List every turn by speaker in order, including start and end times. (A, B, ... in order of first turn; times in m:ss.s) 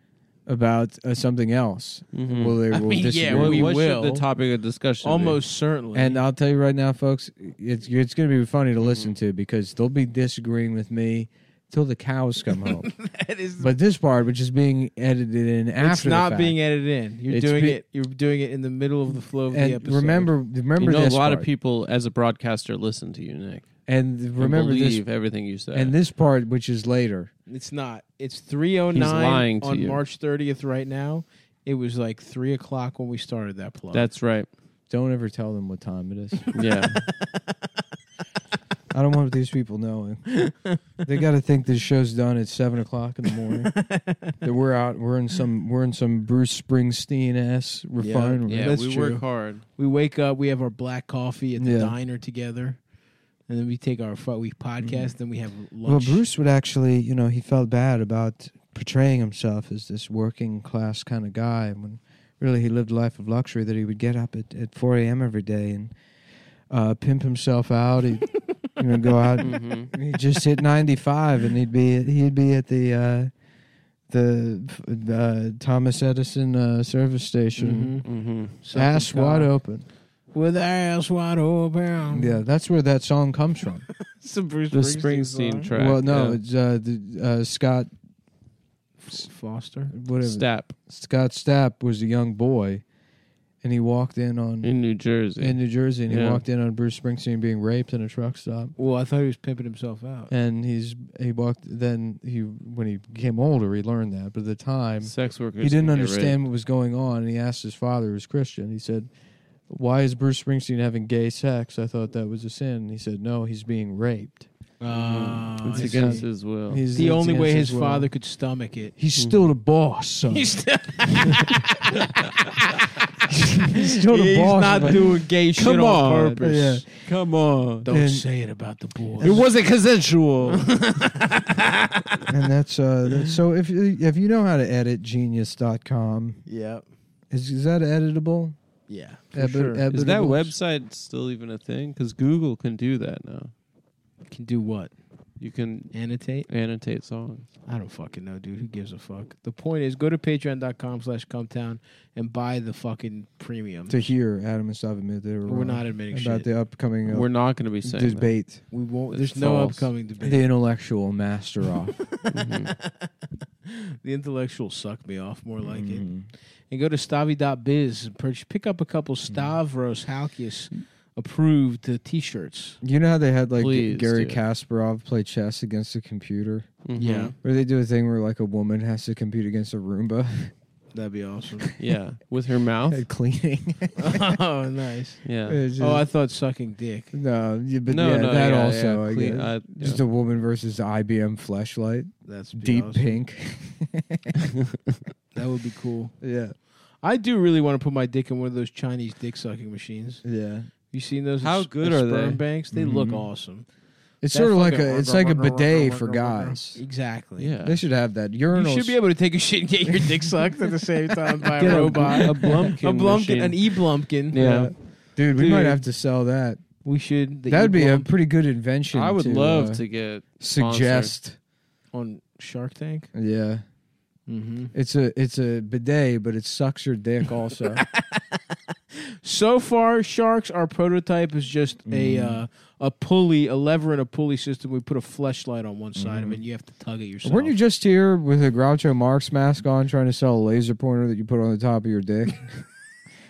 0:00.4-0:03.7 A
0:02.1-0:02.6 B
0:02.7-0:04.2 C
0:03.3-0:05.4 B
0:05.0-0:06.2 C
0:05.9-0:12.9 A
0:08.8-0:09.1 B
0:12.8-0:13.7 C
0:13.6-0:16.6 A
0:15.8-0:20.3 C
0:17.3-0:17.8 A
0:19.5-0:21.5 A
0:20.8-0:23.7 B
0:23.9-0:25.1 A
0:24.4-0:25.9 B
0:25.7-0:27.3 A
0:27.5-0:34.1 C
0:28.9-0:30.0 B
0:33.9-0:34.5 B
0:34.9-0:36.5 A
0:36.5-0:37.0 B
0:38.9-0:40.4 A
0:40.4-0:40.8 C
0:41.0-0:43.7 A
0:43.7-0:44.4 C
0:44.4-0:48.8 A
0:48.0-0:52.8 C
0:48.5-0:49.6 B
0:51.6-0:51.9 A
0:53.5-0:56.2 C
0:54.8-0:55.1 A
0:55.8-1:05.9 A
1:06.7-1:13.3 A
1:09.4-1:09.9 B
1:14.1-1:18.0 A
1:17.6-1:18.1 C
1:18.0-1:18.5 B
1:18.6-1:19.5 C
1:18.7-1:19.8 A
1:20.3-1:22.4 C
1:22.1-1:23.9 A
1:24.1-1:25.7 C
1:24.7-1:26.4 B
1:25.7-1:27.9 A
1:29.0-1:29.9 C
1:29.9-1:32.8 A
1:30.2-1:30.7 B
1:33.6-1:34.7 A
1:34.6-1:36.4 B
1:35.4-1:38.7 A
1:38.8-1:40.3 C
1:40.3-1:49.1 A
1:45.0-1:46.4 B
1:49.7-1:54.5 A
1:54.8-1:56.3 C
1:54.9-1:56.8 B
1:55.7-1:58.1 A
1:56.9-1:58.9 C
1:59.0-2:00.6 A
1:59.2-1:59.4 B
2:00.3-2:02.8 C
2:03.3-2:05.0 A
2:04.0-2:06.8 C
2:05.6-2:06.4 B
2:06.4-2:06.8 A
2:07.0-2:07.9 B
2:07.8-2:09.4 C
2:07.9-2:08.3 A
2:09.2-2:09.5 A
2:09.2-2:10.7 B
2:10.5-2:12.2 C
2:12.3-2:16.4 A
2:16.5-2:16.8 C
2:17.3-2:18.6 A
2:18.9-2:19.8 C
2:19.3-2:20.5 A
2:19.9-2:23.5 B
2:24.3-2:24.9 C
2:25.4-2:27.4 B
2:25.9-2:26.5 C
2:27.6-2:34.1 C
2:33.9-2:38.6 A
2:35.4-2:36.5 C
2:37.1-2:38.3 B
2:38.7-2:40.5 C
2:39.1-2:39.9 B
2:40.2-2:42.0 A
2:42.2-2:43.1 C
2:42.3-2:42.7 B
2:43.6-2:46.1 C
2:45.6-2:46.3 A
2:46.7-2:52.8 C
2:52.8-2:56.8 A
2:53.6-2:54.4 B
2:56.8-2:57.3 B
2:57.0-2:57.3 C
2:57.4-3:00.5 A
3:00.9-3:01.7 C
3:01.8-3:03.0 B
3:02.9-3:04.4 A
3:04.0-3:05.2 C
3:05.2-3:05.6 B
3:05.4-3:06.1 A
3:05.8-3:07.1 C
3:07.1-3:14.4 A
3:07.9-3:10.0 B
3:12.3-3:13.2 C
3:15.3-3:16.2 C
3:16.2-3:16.5 A
3:17.0-3:20.2 C
3:20.2-3:20.7 A
3:20.9-3:23.6 C
3:21.4-3:22.4 B
3:22.7-3:23.3 A
3:24.2-3:26.8 A
3:24.3-3:27.5 C
3:27.4-3:27.8 B
3:27.6-3:29.0 A
3:28.5-3:34.7 C
3:31.6-3:34.7 B
3:31.7-3:32.2 A
3:34.4-3:36.6 A
3:35.3-3:35.8 C
3:36.8-3:38.1 C
3:37.5-3:39.8 A
3:38.9-3:41.1 B
3:40.4-3:41.4 A
3:41.9-3:43.1 C
3:43.1-3:43.6 A
3:44.3-3:44.7 C
3:44.7-3:47.8 A
3:47.8-3:48.4 C
3:49.2-3:57.6 C
3:51.9-3:52.4 A
3:56.0-3:56.4 A
3:57.2-4:02.5 A